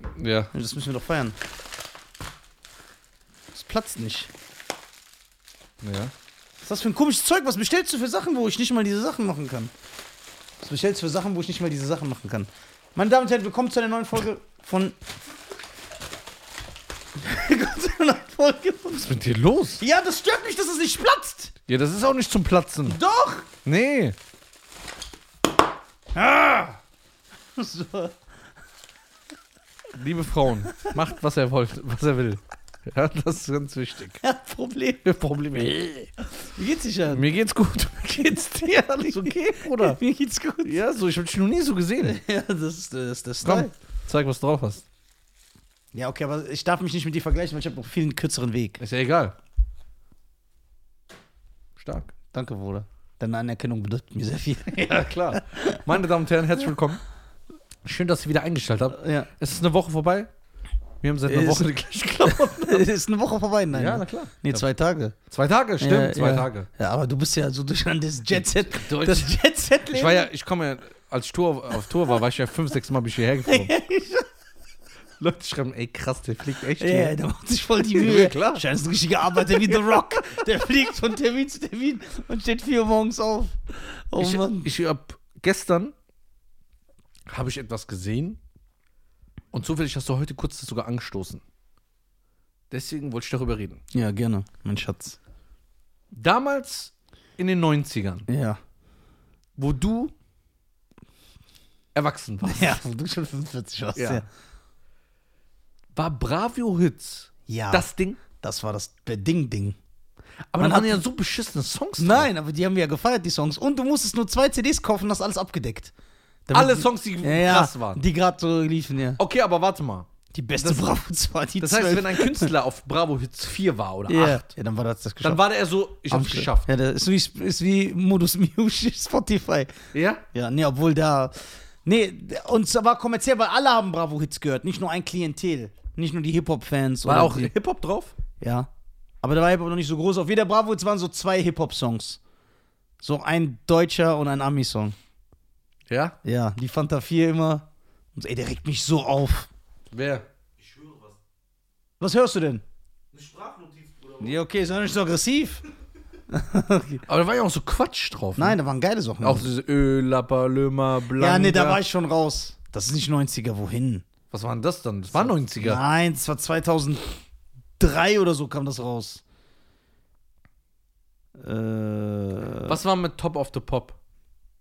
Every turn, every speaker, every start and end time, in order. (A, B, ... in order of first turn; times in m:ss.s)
0:00.1-0:00.5 A
0:00.5-0:01.4 B
0:03.5-0:04.3 B
0:05.8-0:06.1 A
0:06.6-0:09.7 B
0:10.6-0:15.0 B
0:17.2-0:19.2 B
0:19.0-0:19.8 A
0:19.8-0:21.5 B
0:21.7-0:23.0 A
0:22.8-0:23.5 B
0:23.6-0:24.2 A
0:26.1-0:26.8 B
0:27.6-0:28.1 B
0:29.9-0:34.2 A
0:34.2-0:35.0 B
0:35.0-0:36.1 A
0:36.4-0:37.2 B
0:37.1-0:40.0 A
0:39.6-0:40.8 B
0:40.6-0:42.2 A
0:42.0-0:43.7 B
0:43.4-0:44.8 A
0:45.9-0:48.8 B
0:48.8-0:49.4 A
0:51.8-0:52.1 A
0:52.3-0:55.8 B
0:54.8-0:57.0 A
0:57.8-1:00.3 A
0:58.9-0:59.3 B
1:01.0-1:02.9 A
1:01.3-1:01.7 B
1:02.2-1:05.1 B
1:03.7-1:04.6 A
1:05.3-1:06.7 A
1:05.8-1:10.3 B
1:08.3-1:09.4 A
1:09.9-1:13.7 A
1:13.4-1:14.2 B
1:15.2-1:17.2 A
1:16.8-1:24.7 B
1:17.9-1:18.6 A
1:19.2-1:20.5 A
1:24.2-1:25.9 A
1:27.3-1:28.4 A
1:29.5-1:31.4 A
1:32.7-1:33.8 A
1:33.9-1:35.2 B
1:36.1-1:38.2 A
1:38.3-1:38.6 B
1:39.6-1:40.1 A
1:41.9-1:42.8 A
1:42.4-1:44.2 B
1:43.9-1:44.2 A
1:45.9-1:48.2 A
1:47.5-1:49.8 B
1:50.5-1:52.3 A
1:50.6-1:51.0 B
1:52.0-1:55.9 B
1:56.4-1:59.2 B
1:56.5-1:58.0 A
1:59.2-2:00.1 A
2:00.3-2:02.5 B
2:00.6-2:01.0 A
2:01.6-2:04.5 A
2:04.1-2:05.4 B
2:05.2-2:06.7 A
2:06.1-2:09.8 B
2:09.9-2:10.2 A
2:10.3-2:17.5 B
2:17.0-2:18.1 A
2:18.4-2:18.7 B
2:19.2-2:22.2 B
2:23.0-2:25.0 B
2:25.9-2:26.2 A
2:26.2-2:29.5 B
2:29.9-2:30.2 A
2:30.6-2:31.2 C
2:32.0-2:32.6 B
2:33.1-2:34.4 C
2:34.2-2:35.6 B
2:36.3-2:37.0 B
2:37.1-2:38.6 A
2:38.4-2:39.5 B
2:39.2-2:41.8 A
2:41.2-2:44.0 B
2:44.3-2:45.8 A
2:45.1-2:47.1 B
2:47.8-2:49.2 B
2:51.4-2:52.8 B
2:52.7-2:54.0 A